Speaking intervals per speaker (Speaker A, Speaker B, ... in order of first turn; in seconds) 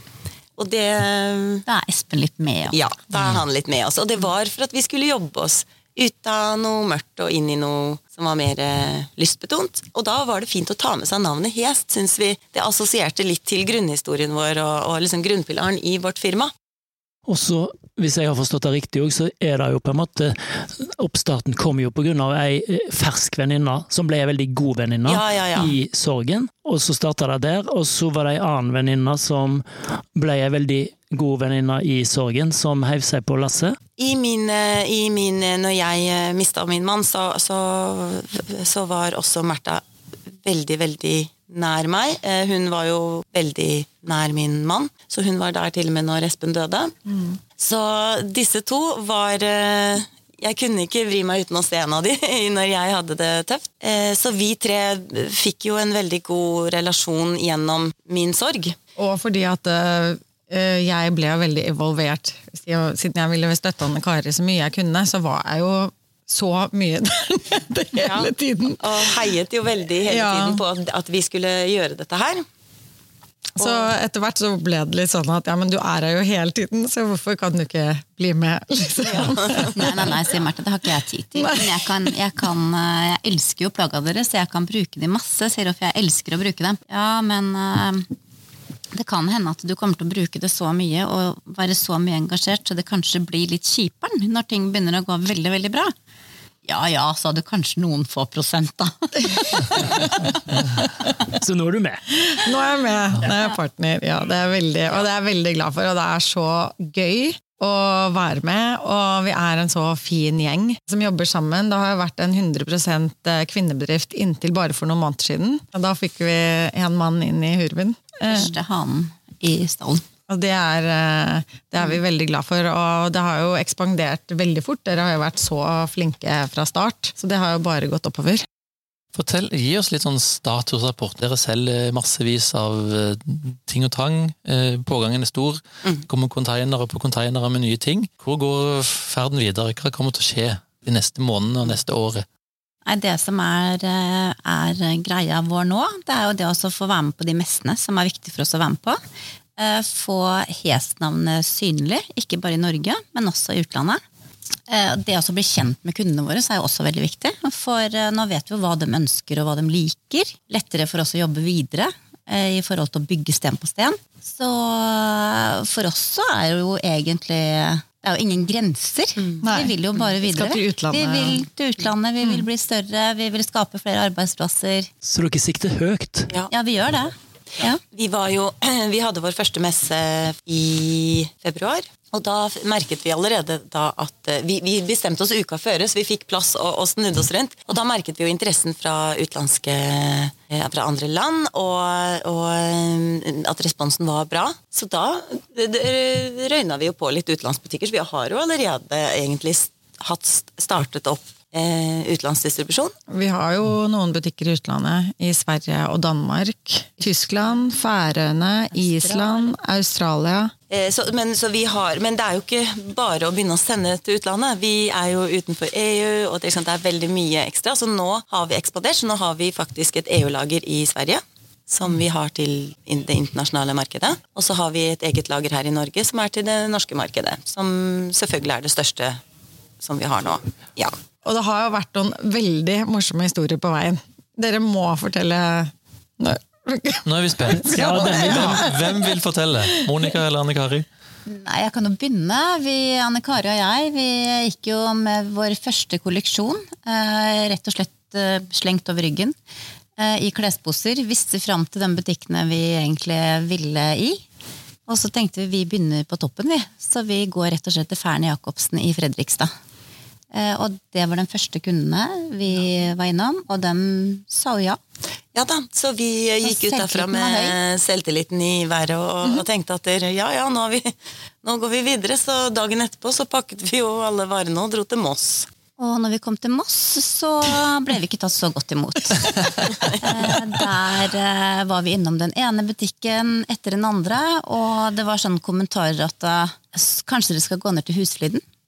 Speaker A: 0.6-1.6, 2.7-16.5, 25.0-25.7, 34.0-39.8, 40.4-46.9, 47.6-58.8, 68.8-72.5, 73.6-73.9, 79.0-79.9, 177.9-202.9, 210.7-229.2, 229.8-230.9, 265.3-270.9, 271.4-275.5
Speaker B: 1.6-2.8, 79.7-88.1, 88.9-95.9, 96.6-100.4, 118.2-120.0, 142.8-149.0, 149.6-154.0, 154.7-174.9, 176.5-177.8, 208.7-209.5, 241.2-249.3, 250.0-254.2, 254.9-259.5, 260.3-264.8, 266.4-267.6, 275.8-288.4
Speaker C: 17.3-33.8, 101.3-102.0, 175.0-176.3, 237.6-238.6
Speaker D: 47.1-47.4, 59.0-69.2, 70.1-70.6, 73.5-80.0, 81.3-82.1, 102.3-118.5, 120.3-128.4, 169.4-171.4, 203.1-210.5, 231.2-239.1
Speaker E: 129.1-142.2, 237.1-240.9